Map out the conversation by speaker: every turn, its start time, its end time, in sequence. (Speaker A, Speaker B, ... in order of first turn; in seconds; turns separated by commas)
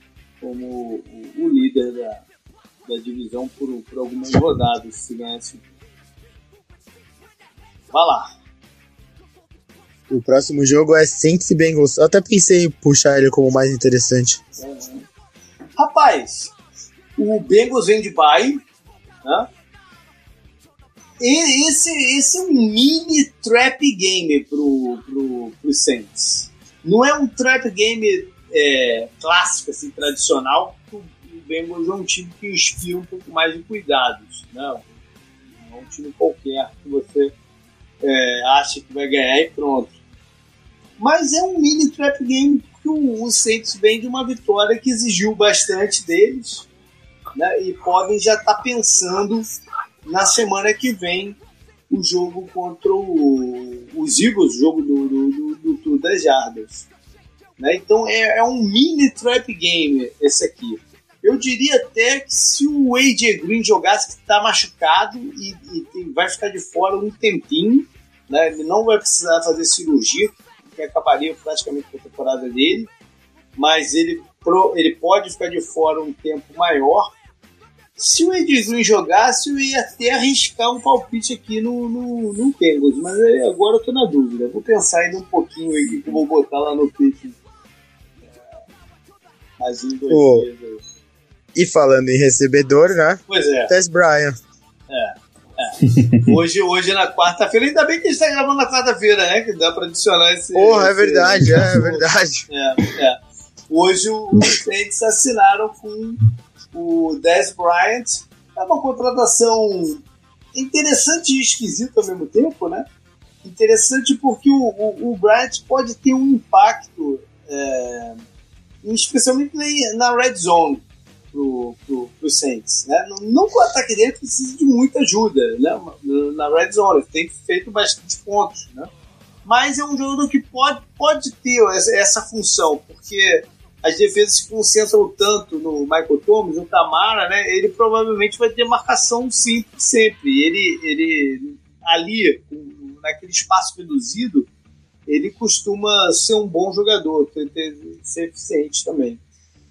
Speaker A: 0.4-2.2, Speaker A: 2.9-5.7, Speaker A: 7.9-8.3, Speaker B: 10.1-14.4, Speaker A: 14.6-15.1, Speaker A: 15.8-16.5, Speaker A: 17.2-18.6, Speaker A: 19.2-19.5, Speaker A: 21.2-34.8, Speaker A: 35.6-37.3, Speaker A: 38.0-40.0, Speaker A: 41.0-46.7, Speaker A: 47.4-49.5, Speaker A: 50.0-51.4, Speaker A: 51.9-56.8, Speaker A: 57.6-72.9, Speaker A: 73.6-77.1, Speaker A: 78.0-87.4, Speaker A: 89.6-90.8, Speaker B: 90.1-90.5, Speaker B: 91.5-94.4, Speaker A: 93.3-93.7, Speaker A: 94.9-106.2, Speaker B: 100.5-102.5, Speaker A: 106.7-112.9, Speaker A: 113.4-118.2, Speaker A: 118.8-128.9, Speaker A: 129.5-144.5, Speaker A: 145.1-149.2